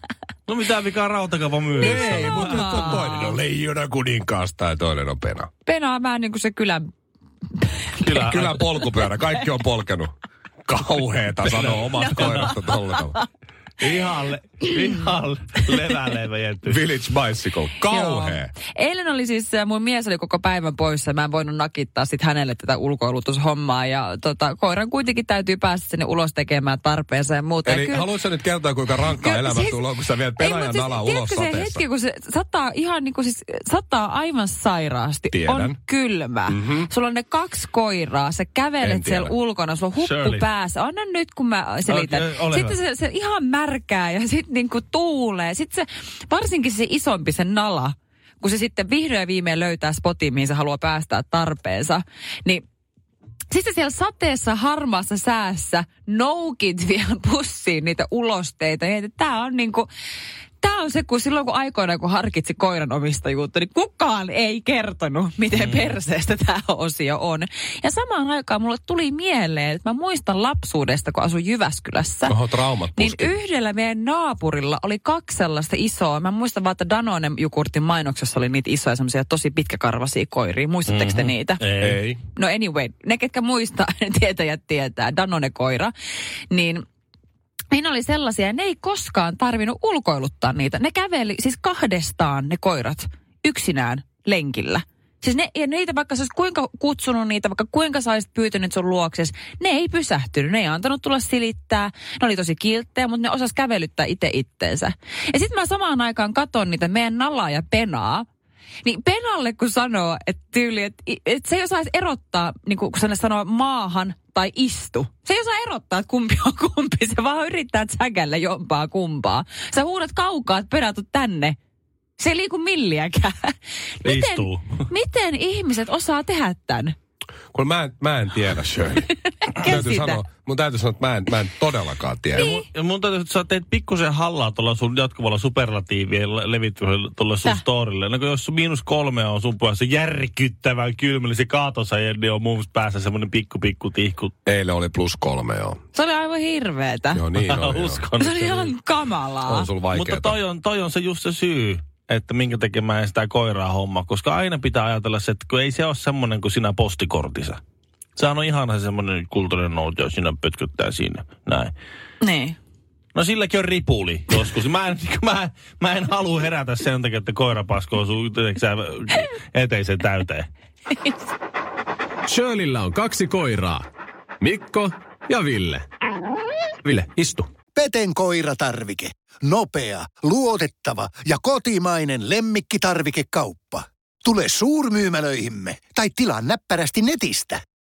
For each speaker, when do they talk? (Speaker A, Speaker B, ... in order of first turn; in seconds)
Speaker A: 0.5-3.0, 8.0-8.7, 11.4-12.5, 13.8-16.8, 40.0-40.5, 41.9-42.8, 80.8-82.0, 124.0-124.8, 132.3-144.3, 147.4-148.7, 149.9-157.6, 158.2-161.7, 163.1-170.5
Speaker B: 1.8-5.5, 8.1-10.1, 10.7-13.2, 16.6-18.5, 27.6-31.8, 35.3-35.8, 36.5-36.9, 38.8-39.3, 72.3-73.3, 81.8-82.2, 127.5-132.5, 144.4-145.8, 147.1-148.0, 149.4-150.4
Speaker C: 1.8-3.4, 5.7-6.9, 7.6-8.0, 11.8-13.2, 17.8-28.1, 29.1-29.8, 30.4-52.6, 53.5-59.9, 60.6-72.3, 73.0-81.6, 82.3-85.9, 86.5-86.8, 87.7-108.3, 108.8-121.6, 122.2-126.9, 129.4-130.2, 132.3-132.6, 145.9-147.2, 148.2-149.7, 162.2-162.6
Speaker D: 172.2-173.8, 174.4-175.8, 176.8-177.5
Speaker E: 177.7-187.6